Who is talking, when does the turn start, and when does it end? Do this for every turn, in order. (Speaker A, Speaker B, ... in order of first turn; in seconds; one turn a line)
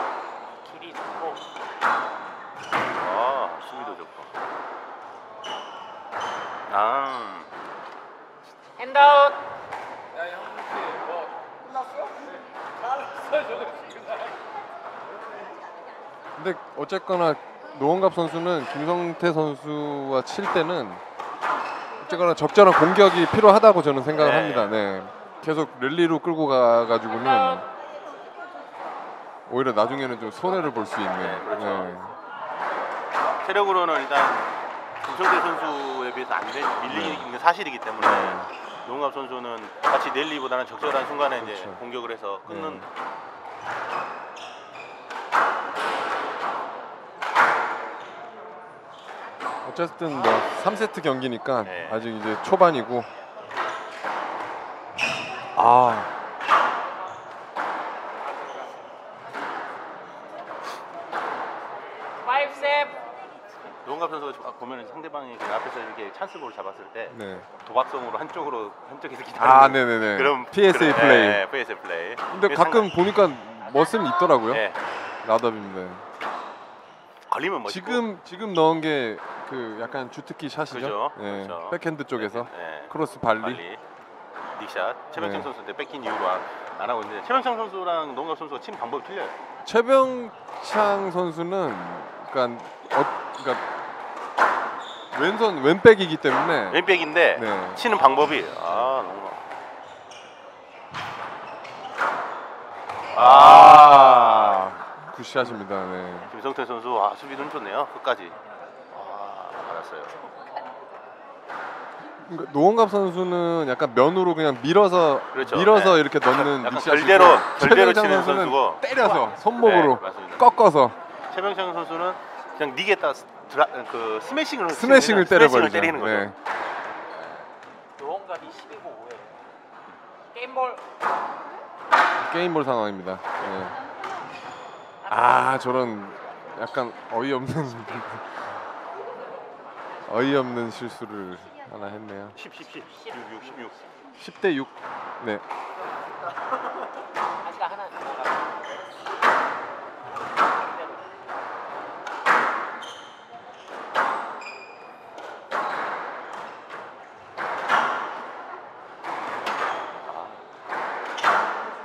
Speaker A: 0.7-1.4
Speaker B: 3.0-4.3
Speaker B: 6.7-7.5
Speaker A: 8.8-9.4
Speaker C: 16.4-21.0
Speaker C: 22.0-27.7
Speaker B: 24.1-24.8
Speaker C: 29.5-32.1
Speaker B: 31.1-32.0
Speaker B: 33.4-42.9
Speaker C: 36.9-37.3
Speaker C: 38.0-38.5
Speaker C: 41.4-41.8
Speaker C: 42.5-42.9
Speaker C: 49.6-53.1
Speaker B: 51.6-52.0
Speaker C: 55.5-56.1
Speaker A: 62.2-63.0
Speaker B: 63.8-72.9
Speaker C: 67.1-67.5
Speaker C: 69.4-71.4
Speaker C: 72.3-74.6
Speaker B: 74.5-74.8
Speaker C: 75.2-76.0
Speaker B: 77.3-78.0
Speaker C: 77.7-83.6
Speaker B: 80.7-83.8
Speaker B: 84.5-89.3
Speaker C: 85.2-85.5
Speaker C: 89.6-93.7
Speaker C: 95.1-96.8
Speaker B: 96.7-99.4
Speaker C: 97.3-97.8
Speaker B: 103.1-104.8
Speaker C: 103.1-106.3
Speaker B: 106.3-108.3
Speaker B: 108.9-110.1
Speaker C: 112.2-121.0
Speaker B: 115.3-118.9
Speaker B: 119.6-120.5
Speaker B: 121.3-126.3
Speaker C: 124.7-126.3
Speaker B: 127.1-127.4
Speaker A: 128.0-129.3
Speaker A: 130.3-130.8
Speaker C: 132.2-133.8
Speaker C: 135.1-138.6
Speaker C: 140.0-142.3
Speaker B: 142.3-143.9
Speaker C: 144.1-145.4
Speaker A: 147.4-148.3
Speaker B: 160.0-160.4